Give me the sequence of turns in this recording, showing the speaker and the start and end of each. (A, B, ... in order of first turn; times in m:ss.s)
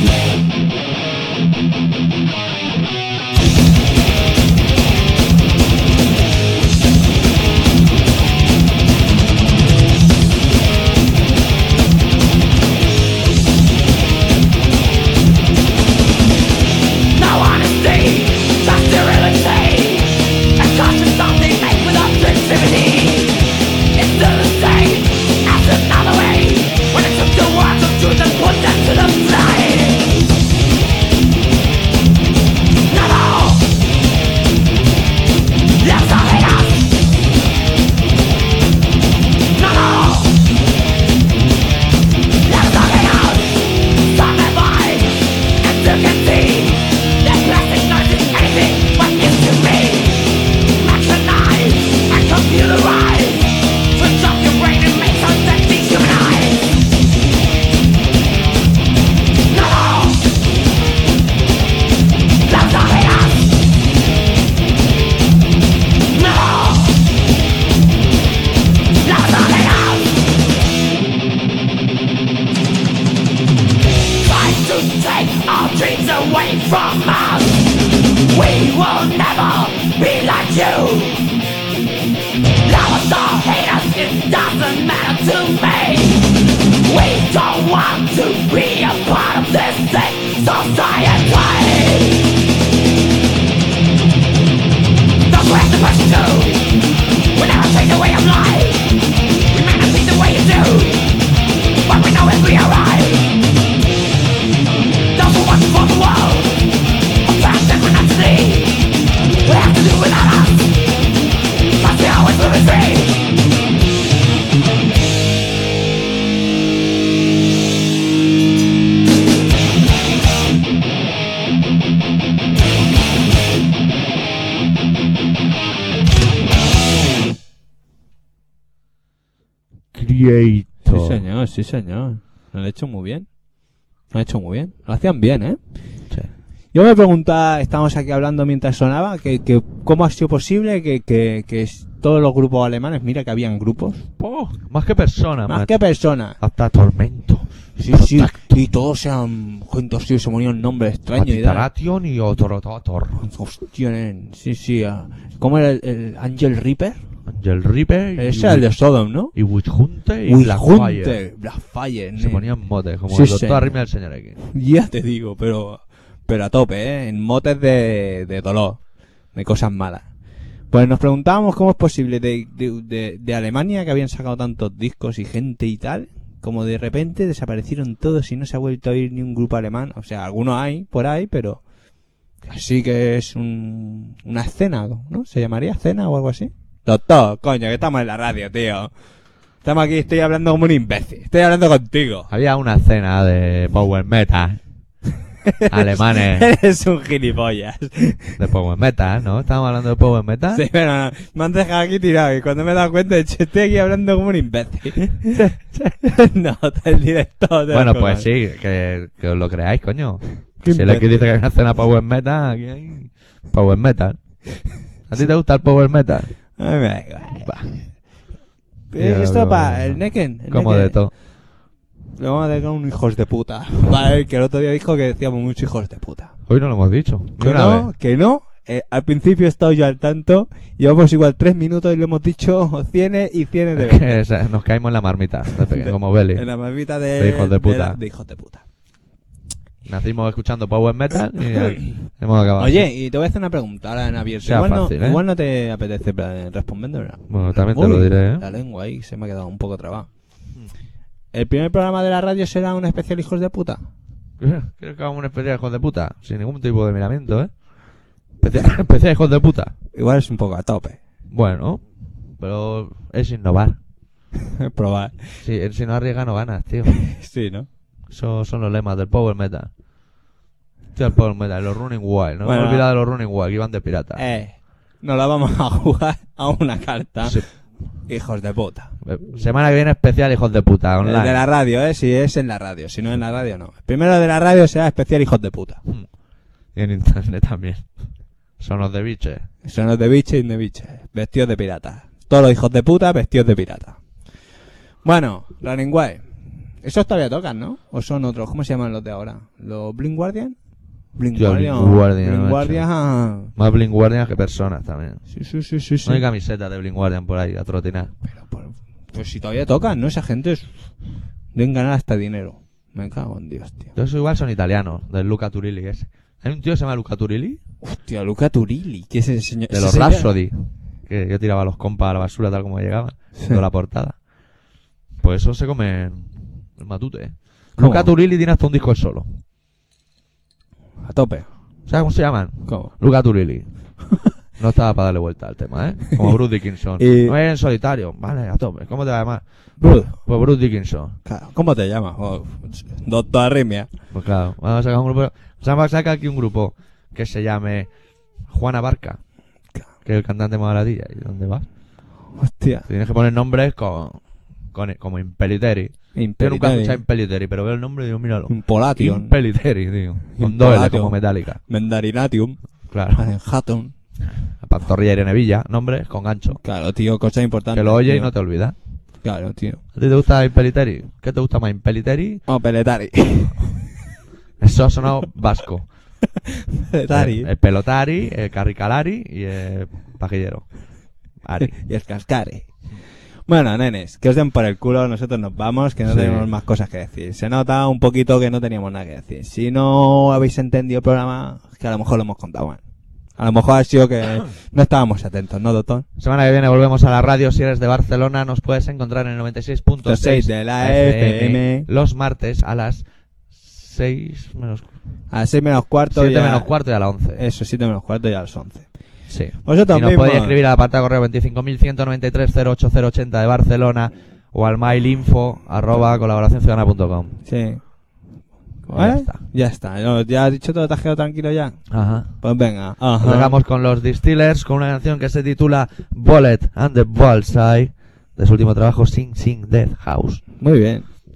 0:17.1-0:23.4 A
0:23.9-0:30.2 A
0:32.9-0:33.7 A
0:35.8-0:36.9 A
0:39.5-0:40.4 A
0:42.4-0:56.8 A
0:59.4-1:00.3 A
1:02.4-1:03.5 A
1:06.1-1:07.0 A
1:09.0-1:10.2 A
1:14.2-1:17.7 A
1:18.2-1:21.2 A
1:22.6-1:32.3 A
1:35.3-1:36.7 A
1:37.3-1:39.0 A
1:39.5-1:41.1 A
1:41.8-1:43.3 A
1:45.1-1:46.6 A
1:47.2-1:48.8 A
1:49.4-1:50.7 A
1:51.8-1:53.2 A
2:09.9-2:11.2 B
2:10.9-2:13.3 C
2:14.1-2:15.6 C
2:16.7-2:24.0 C
2:24.2-2:25.8 B
2:25.5-2:26.4 C
2:26.4-2:28.6 B
2:27.8-2:31.7 C
2:31.2-2:33.2 B
2:33.2-2:37.0 C
2:37.3-2:38.7 B
2:38.2-2:39.4 C
2:39.3-2:41.2 B
2:40.2-2:42.5 C
2:42.2-2:44.4 B
2:43.1-2:43.8 C
2:44.4-2:48.8 C
2:49.3-2:50.1 C
2:50.7-3:01.6 C
3:02.5-3:08.9 C
3:09.6-3:12.3 C
3:12.3-3:14.6 B
3:15.5-3:18.4 C
3:15.6-3:16.5 B
3:18.4-3:20.7 B
3:20.5-3:28.3 C
3:25.3-3:25.7 B
3:27.7-3:34.2 B
3:30.6-3:31.2 C
3:35.1-3:36.4 B
3:36.6-3:37.6 C
3:37.4-3:37.7 B
3:38.9-3:41.0 C
3:39.0-3:41.1 B
3:42.2-3:46.3 C
3:46.5-3:47.9 B
3:47.4-3:54.2 C
3:53.8-3:56.5 B
3:55.7-3:58.6 C
3:57.2-3:58.0 B
3:59.8-4:02.9 B
4:02.6-4:10.1 C
4:04.4-4:05.2 B
4:07.3-4:08.5 B
4:11.3-4:13.8 C
4:14.4-4:17.5 B
4:18.4-4:19.7 B
4:20.0-4:21.0 C
4:21.3-4:21.8 B
4:22.4-4:23.8 B
4:24.6-4:25.4 C
4:25.4-4:27.0 B
4:27.0-4:27.7 C
4:28.1-4:29.7 B
4:30.9-4:34.2 B
4:32.4-4:32.9 C
4:34.2-4:37.4 C
4:38.0-4:38.9 C
4:39.0-4:41.4 B
4:41.0-4:45.8 C
4:46.8-4:47.9 B
4:48.6-4:49.5 B
4:49.6-4:54.0 C
4:55.0-4:56.3 C
4:56.8-5:00.6 C
5:01.2-5:03.5 C
5:01.3-5:02.9 B
5:03.6-5:05.2 B
5:05.3-5:06.2 C
5:06.0-5:08.1 B
5:08.2-5:10.7 C
5:11.5-5:13.9 C
5:14.0-5:17.6 B
5:17.8-5:20.3 C
5:19.7-5:24.2 B
5:23.4-5:23.6 C
5:25.2-5:29.3 B
5:27.8-5:28.1 C
5:31.0-5:31.5 C
5:31.9-5:33.7 B
5:32.7-5:32.9 C
5:34.6-5:41.2 B
5:37.0-5:37.4 C
5:39.8-5:40.2 C
5:41.2-5:43.9 C
5:44.1-5:47.9 B
5:48.4-5:49.2 B
5:50.0-5:51.6 B
5:52.4-5:52.9 C
5:52.9-5:54.2 B
5:54.7-6:01.6 B
5:56.2-5:57.0 C
5:58.5-5:59.4 C
6:00.4-6:02.6 C
6:02.9-6:03.2 B
6:03.1-6:03.9 C
6:04.6-6:06.6 B
6:06.5-6:08.3 C
6:07.7-6:08.8 B
6:09.2-6:09.8 C
6:10.0-6:12.4 B
6:12.5-6:13.9 C
6:14.6-6:15.9 B
6:16.5-6:17.5 C
6:17.1-6:20.7 B
6:21.4-6:21.8 B
6:21.6-6:22.7 C
6:23.5-6:32.8 C
6:26.0-6:26.5 B
6:33.4-6:36.1 C
6:36.2-6:43.0 B
6:40.0-6:41.9 C
6:43.6-6:44.9 B
6:45.3-6:46.7 C
6:46.1-6:47.4 B
6:47.4-6:48.9 C
6:49.3-6:57.4 B
6:49.6-6:50.6 C
6:57.5-6:57.8 C
6:58.9-7:01.8 C
6:58.9-6:59.4 B
7:01.9-7:02.4 B
7:02.4-7:03.6 C
7:03.2-7:10.4 B
7:10.6-7:11.1 C